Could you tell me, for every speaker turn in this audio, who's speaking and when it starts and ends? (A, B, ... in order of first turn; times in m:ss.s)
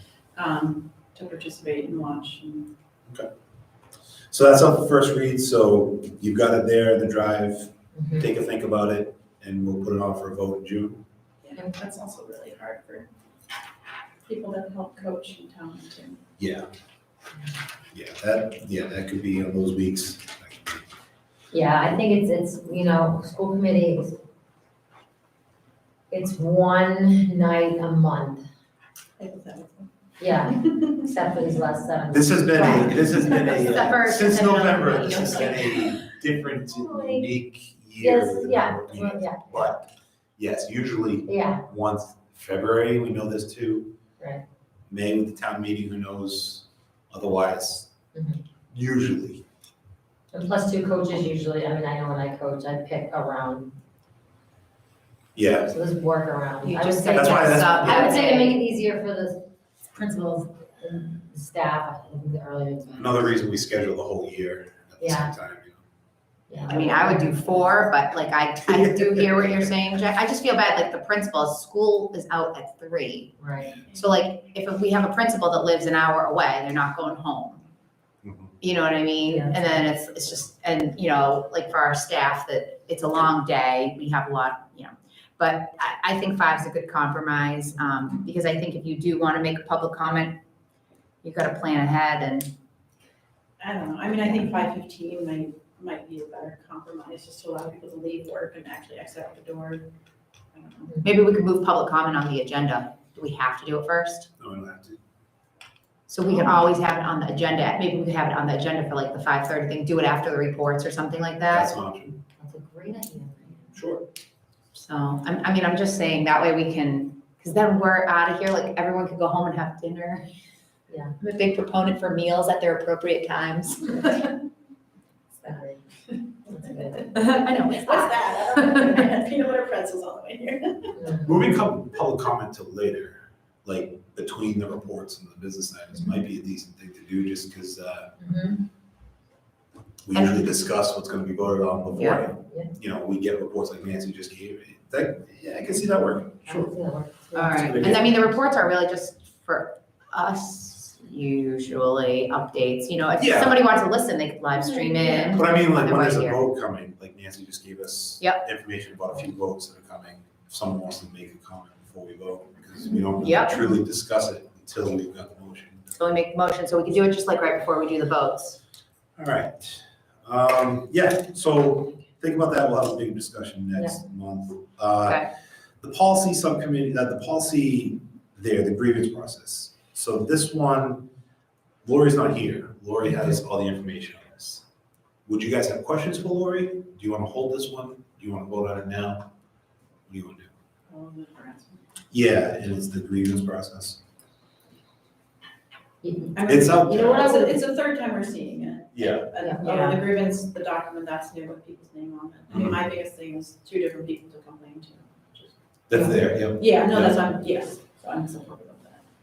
0:00.4-0:02.7 A
0:04.3-0:11.0 B
0:08.0-0:08.3 C
0:11.4-0:13.1 A
0:14.3-0:16.2 A
0:16.4-0:16.7 B
0:17.9-0:20.9 B
0:21.5-0:24.2 C
0:26.1-0:28.4 C
0:29.2-0:29.9 A
0:30.2-0:33.1 C
0:30.5-0:30.9 A
0:32.1-0:39.8 B
0:32.5-0:35.9 D
0:36.7-0:37.3 C
0:38.0-0:39.8 C
0:40.4-0:43.9 B
0:41.3-0:41.6 C
0:44.9-0:47.9 B
0:48.1-0:48.4 C
0:48.7-0:49.4 B
0:50.3-0:53.8 C
0:55.4-0:55.7 B
0:55.6-0:59.4 C
0:56.6-0:58.6 D
0:57.1-0:58.1 B
0:59.9-1:03.4 C
1:03.0-1:05.8 B
1:05.0-1:05.3 C
1:06.5-1:07.7 C
1:06.7-1:13.4 D
1:08.7-1:09.7 B
1:13.4-1:13.8 C
1:13.7-1:14.1 A
1:13.9-1:17.6 D
1:18.2-1:18.5 B
1:18.6-1:30.4 D
1:19.3-1:19.8 C
1:31.2-1:32.5 D
1:33.6-1:39.9 A
1:40.5-1:41.0 A
1:41.0-1:44.3 D
1:44.4-1:45.0 B
1:46.1-1:51.8 D
1:51.5-1:52.2 B
1:52.4-1:53.8 C
1:53.7-1:54.1 B
1:54.7-2:00.3 D
2:00.9-2:01.1 C
2:01.2-2:04.3 D
2:05.4-2:07.4 C
2:07.1-2:08.6 D
2:07.2-2:11.0 A
2:11.0-2:11.3 C
2:11.2-2:18.1 B
2:15.9-2:16.2 C
2:18.2-2:18.7 C
2:20.1-2:26.8 B
2:20.1-2:20.5 D
2:21.9-2:22.2 D
2:22.4-2:22.7 C
2:26.4-2:28.3 C
2:27.4-2:36.4 D
2:27.6-2:28.1 B
2:33.2-2:33.6 B
2:34.5-2:35.4 A
2:35.3-2:45.8 B
2:43.2-2:43.7 D
2:46.0-2:48.6 D
2:49.2-2:55.2 B
2:53.8-2:54.0 C
2:55.0-2:55.3 D
2:55.8-3:01.1 B
3:01.8-3:04.6 B
3:05.3-3:09.3 B
3:10.1-3:10.5 B
3:10.9-3:12.0 A
3:12.1-3:14.0 B
3:16.0-3:17.6 C
3:16.4-3:26.0 A
3:16.5-3:17.3 B
3:18.9-3:19.3 B
3:19.4-3:19.6 C
3:19.6-3:20.0 D
3:22.5-3:22.8 B
3:25.9-3:27.2 B
3:25.9-3:26.2 C
3:26.6-3:29.0 A